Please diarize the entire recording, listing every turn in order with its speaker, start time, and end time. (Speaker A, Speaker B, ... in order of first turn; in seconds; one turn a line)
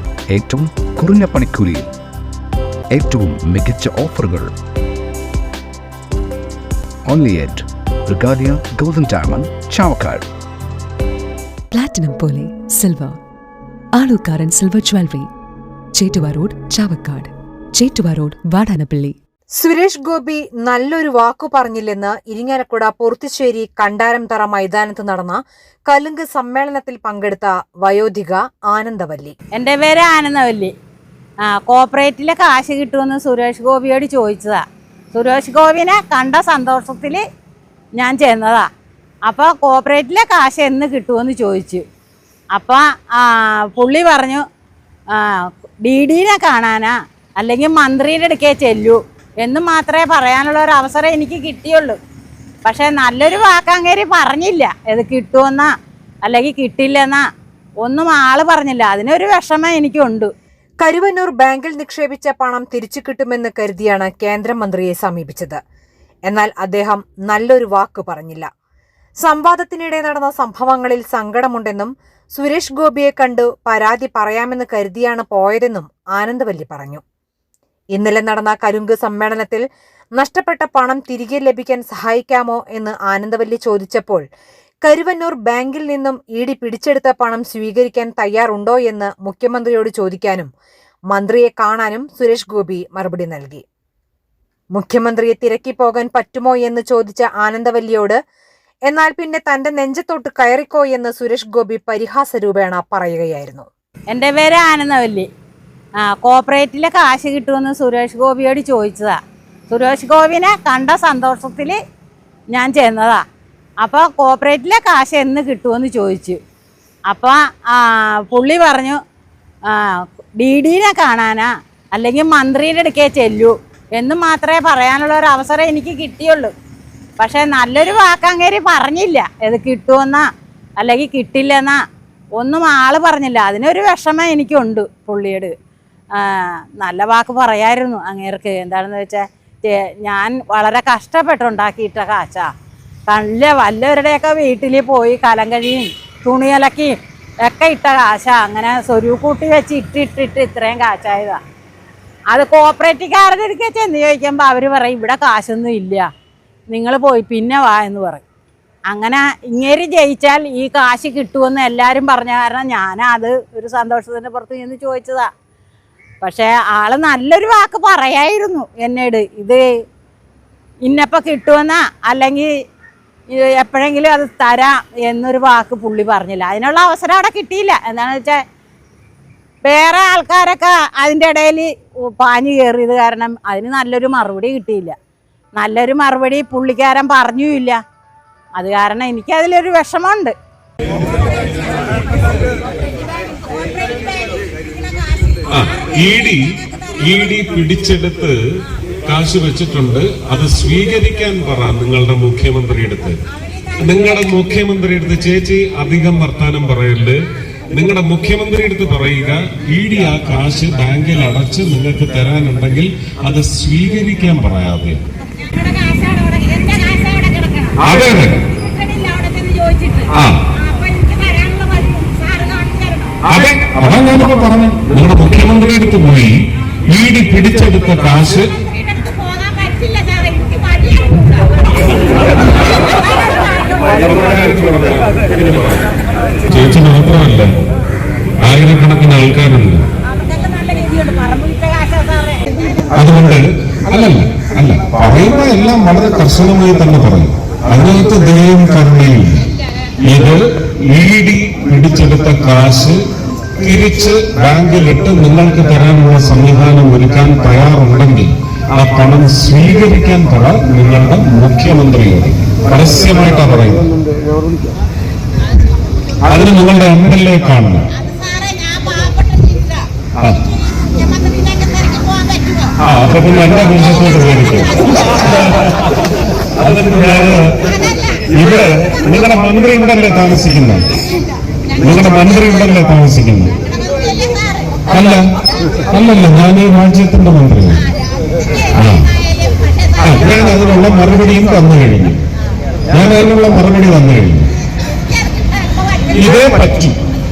Speaker A: 0.4-1.9
Speaker A: 2.9-4.5
Speaker A: 7.1-10.2
Speaker B: 11.7-13.2
Speaker B: 13.9-15.3
Speaker B: 15.9-19.2
Speaker C: 19.6-29.3
Speaker D: 29.5-30.7
Speaker D: 31.4-34.6
Speaker D: 35.1-37.2
Speaker D: 38.0-38.6
Speaker D: 39.2-41.8
Speaker D: 42.5-44.4
Speaker D: 45.1-52.0
Speaker D: 52.6-55.7
Speaker D: 56.2-57.2
Speaker D: 57.8-60.3
Speaker C: 60.8-65.6
Speaker C: 66.3-68.5
Speaker C: 69.2-77.0
Speaker C: 77.9-79.6
Speaker C: 80.2-84.2
Speaker C: 84.8-90.5
Speaker C: 91.1-93.6
Speaker C: 94.7-98.2
Speaker C: 98.9-103.7
Speaker D: 104.1-105.3
Speaker D: 106.0-109.2
Speaker D: 109.7-111.8
Speaker D: 112.5-113.2
Speaker D: 113.8-116.4
Speaker D: 117.1-119.0
Speaker D: 119.7-126.5
Speaker D: 127.2-130.3
Speaker D: 130.8-131.8
Speaker D: 132.4-135.5
Speaker D: 136.1-142.5
Speaker D: 143.1-151.4
Speaker D: 152.3-156.1
Speaker D: 156.7-158.2
Speaker D: 158.9-165.3
Speaker D: 166.2-169.6
Speaker D: 170.8-172.5
Speaker D: 173.3-178.4
Speaker D: 179.6-184.9
Speaker D: 185.5-187.8
Speaker D: 188.6-190.3
Speaker E: 195.5-196.4
Speaker E: 197.0-198.4
Speaker E: 199.1-203.2
Speaker E: 203.8-207.2
Speaker E: 207.7-215.0
Speaker D: 215.7-217.1
Speaker E: 217.8-218.4
Speaker E: 220.1-220.4
Speaker D: 221.9-222.3
Speaker E: 223.2-226.3
Speaker E: 226.9-228.5
Speaker D: 229.8-230.6
Speaker E: 233.9-235.8
Speaker E: 236.5-237.5
Speaker E: 238.4-239.8
Speaker D: 240.3-242.5
Speaker E: 242.9-249.5
Speaker E: 250.0-253.0
Speaker E: 253.6-263.9
Speaker E: 266.2-267.8
Speaker E: 272.8-275.6
Speaker E: 276.6-277.8
Speaker E: 278.3-280.9
Speaker E: 281.8-283.6
Speaker E: 284.9-285.2
Speaker E: 285.9-287.9
Speaker E: 288.7-289.0
Speaker E: 290.0-292.2
Speaker E: 292.9-294.5
Speaker E: 296.1-297.0